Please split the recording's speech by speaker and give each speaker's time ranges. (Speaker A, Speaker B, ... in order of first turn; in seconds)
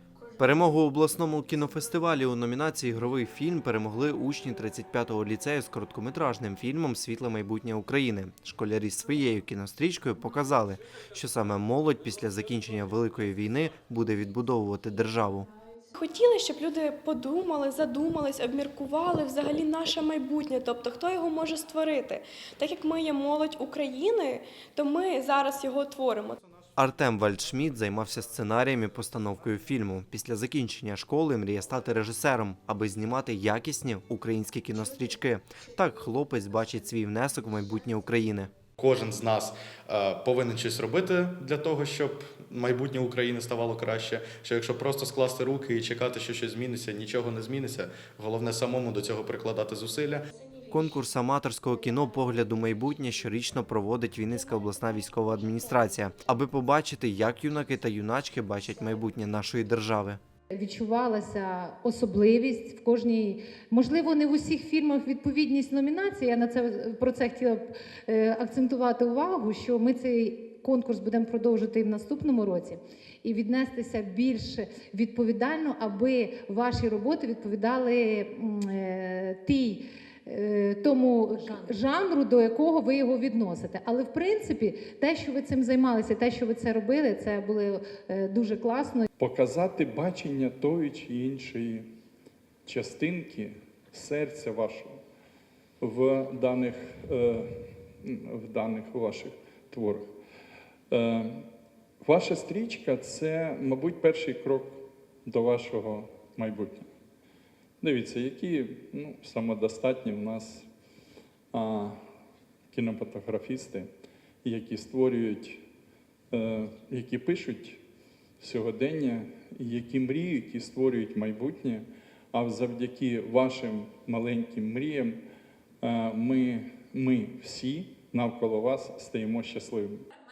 Speaker A: 0.3-15.5, 26.8-38.5, 50.7-60.2
Speaker B: 15.9-26.4
Speaker C: 38.8-50.2
Speaker D: 60.5-89.1
Speaker E: 89.2-91.9, 92.7-95.0, 95.8-100.1, 100.9-101.5, 102.0-106.9, 107.8-110.7, 111.5-112.0, 112.7-113.9, 114.4-115.6, 116.3-117.8, 118.4-125.2, 125.8-130.1